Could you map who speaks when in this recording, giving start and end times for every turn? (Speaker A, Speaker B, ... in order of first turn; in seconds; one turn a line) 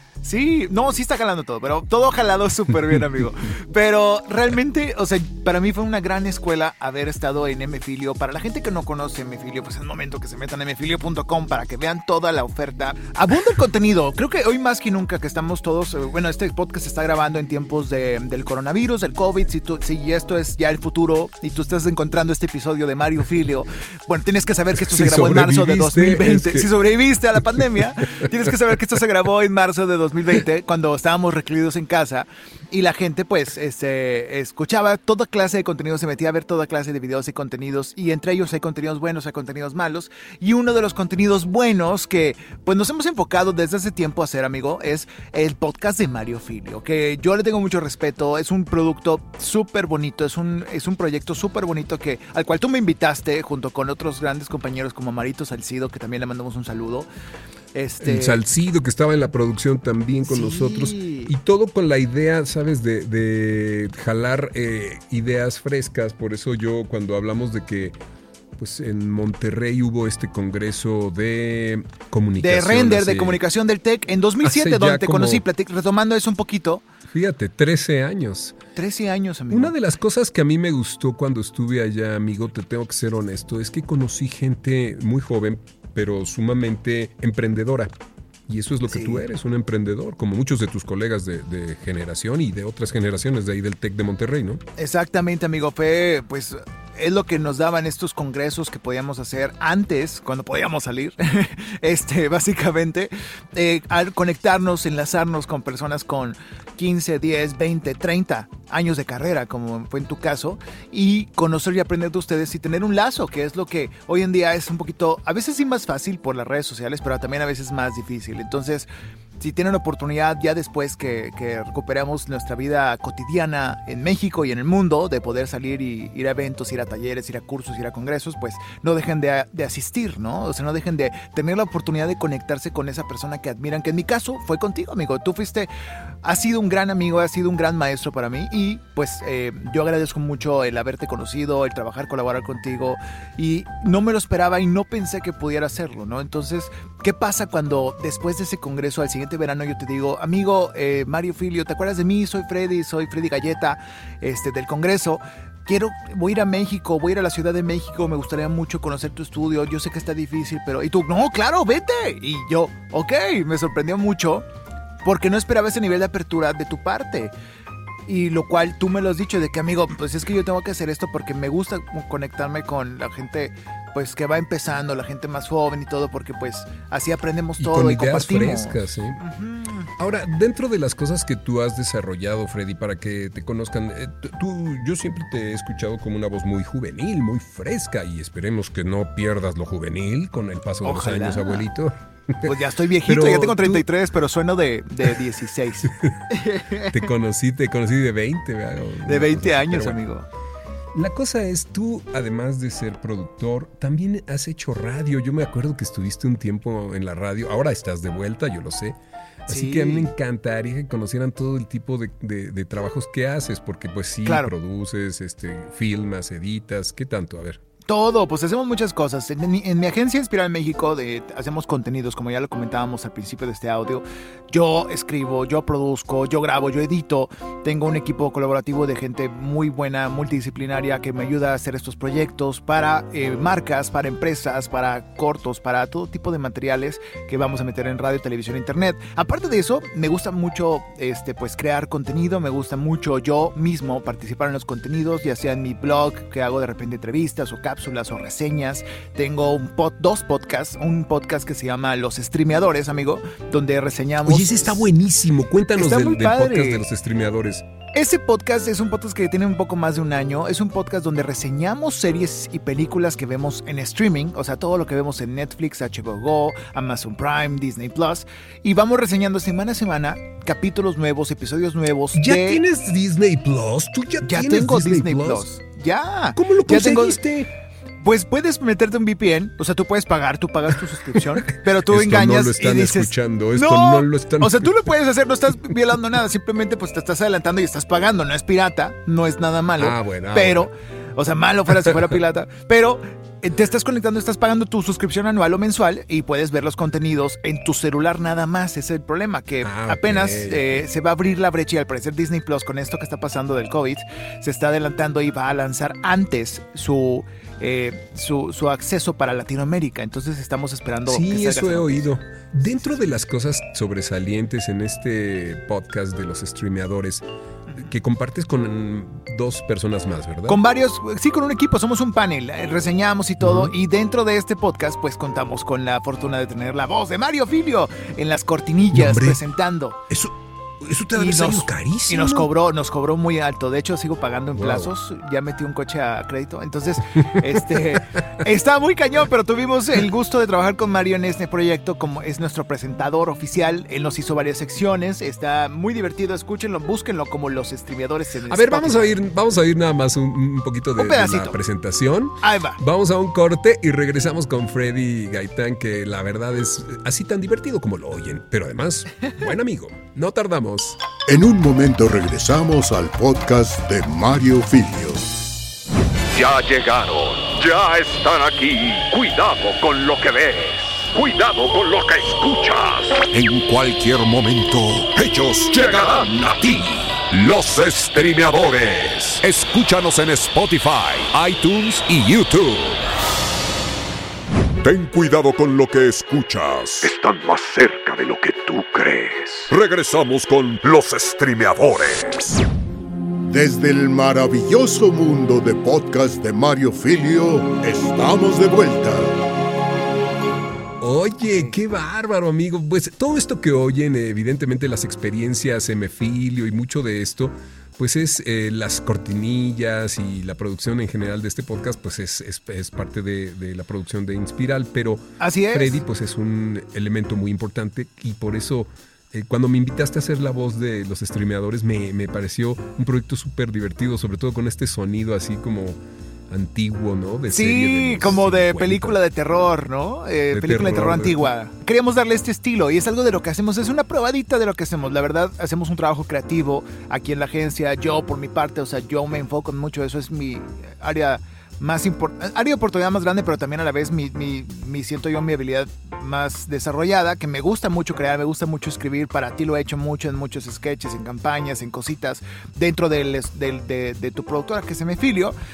Speaker A: 0.2-57.1
Speaker B: 24.8-26.7
Speaker A: 57.7-58.4
Speaker B: 58.0-68.0
Speaker A: 60.2-61.3
Speaker B: 68.6-73.4
Speaker A: 72.4-76.8
Speaker B: 74.4-75.4
Speaker B: 77.1-78.6
Speaker A: 78.8-79.7
Speaker B: 79.5-87.9
Speaker B: 88.5-94.6
Speaker A: 88.9-89.2
Speaker A: 94.8-118.9
Speaker A: 119.4-135.7
Speaker A: 136.2-164.4
Speaker A: 165.1-167.3
Speaker A: 168.1-180.0
Speaker B: 177.6-179.2
Speaker B: 180.0-192.5
Speaker A: 190.8-191.6
Speaker A: 192.4-197.0
Speaker B: 193.1-193.8
Speaker B: 196.9-200.0
Speaker A: 199.1-200.3
Speaker B: 200.9-217.6
Speaker A: 209.5-210.1
Speaker A: 214.2-214.5
Speaker A: 217.9-254.7
Speaker B: 254.2-257.6
Speaker A: 255.8-256.9
Speaker A: 257.9-272.6
Speaker B: 272.1-275.4
Speaker A: 274.2-277.2
Speaker B: 276.4-277.5
Speaker A: 278.0-312.1
Speaker B: 281.1-284.7
Speaker B: 289.8-290.7
Speaker B: 299.6-300.8
Speaker B: 311.1-317.2
Speaker B: 317.8-320.6
Speaker A: 320.5-330.0
Speaker B: 323.4-323.7
Speaker B: 328.9-329.4
Speaker B: 330.1-332.5
Speaker A: 331.1-349.1
Speaker B: 334.6-334.9
Speaker B: 337.2-338.4
Speaker B: 348.5-361.0
Speaker A: 351.0-351.6
Speaker A: 352.4-352.8
Speaker C: 361.3-365.3
Speaker D: 366.3-383.0
Speaker D: 384.8-392.5
Speaker C: 393.5-399.4
Speaker B: 401.0-426.0
Speaker A: 415.4-416.0
Speaker B: 426.5-429.2
Speaker A: 427.5-455.6
Speaker B: 430.5-431.5